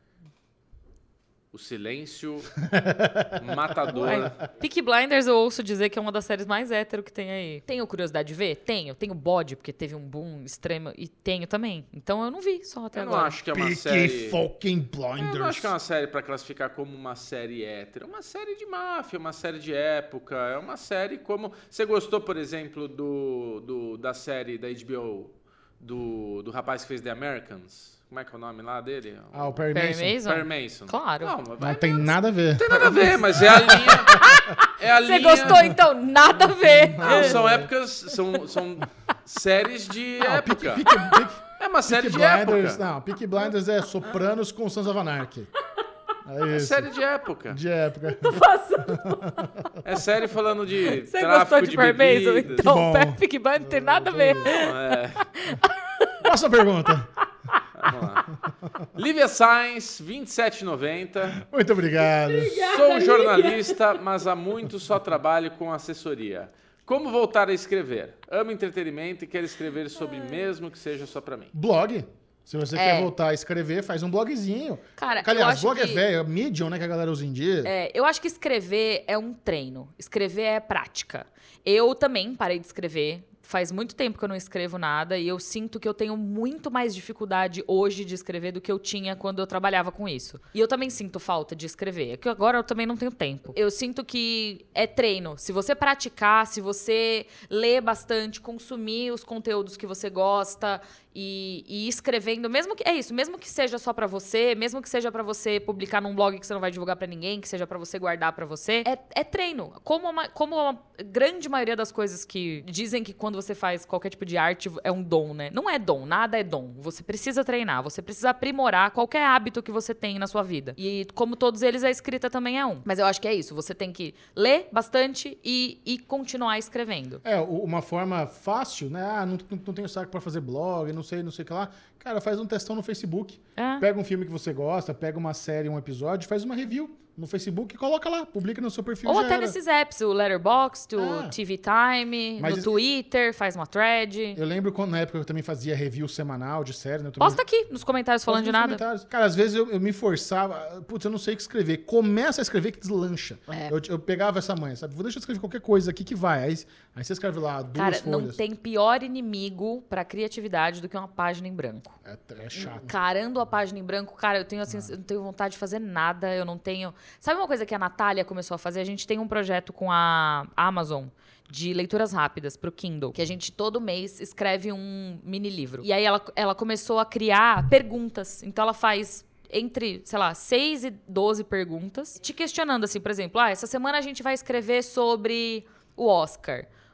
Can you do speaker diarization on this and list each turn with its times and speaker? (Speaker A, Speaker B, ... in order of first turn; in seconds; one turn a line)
Speaker A: 1.5-2.5
Speaker B: 2.6-4.3
Speaker A: 3.4-4.4
Speaker C: 3.9-13.3
Speaker A: 12.9-14.4
Speaker B: 13.5-15.7
Speaker A: 15.2-29.6
Speaker B: 29.3-30.2
Speaker C: 29.7-31.4
Speaker A: 30.2-35.8
Speaker B: 31.6-34.5
Speaker C: 34.1-37.4
Speaker B: 36.5-37.7
Speaker A: 37.0-40.9
Speaker B: 40.2-45.5
Speaker A: 41.5-42.8
Speaker B: 46.2-46.9
Speaker A: 46.5-47.6
Speaker B: 47.5-49.8
Speaker C: 48.1-49.5
Speaker A: 49.8-52.6
Speaker C: 51.0-56.1
Speaker B: 52.5-54.5
Speaker A: 54.5-55.3
Speaker B: 56.2-57.1
Speaker A: 57.8-58.3
Speaker A: 59.0-61.4
Speaker B: 61.2-62.7
Speaker C: 62.1-63.9
Speaker A: 62.6-71.5
Speaker C: 70.0-70.5
Speaker B: 71.5-77.7
Speaker C: 72.7-73.1
Speaker C: 75.0-76.0
Speaker C: 77.6-127.2
Speaker B: 127.2-139.6
Speaker C: 133.6-133.8
Speaker C: 139.1-144.4
Speaker B: 141.0-141.3
Speaker B: 142.4-142.8
Speaker B: 144.3-147.4
Speaker C: 147.2-148.8
Speaker B: 148.3-158.4
Speaker C: 153.5-153.7
Speaker C: 157.8-162.0
Speaker B: 162.1-162.9
Speaker C: 162.5-186.7
Speaker B: 164.7-164.9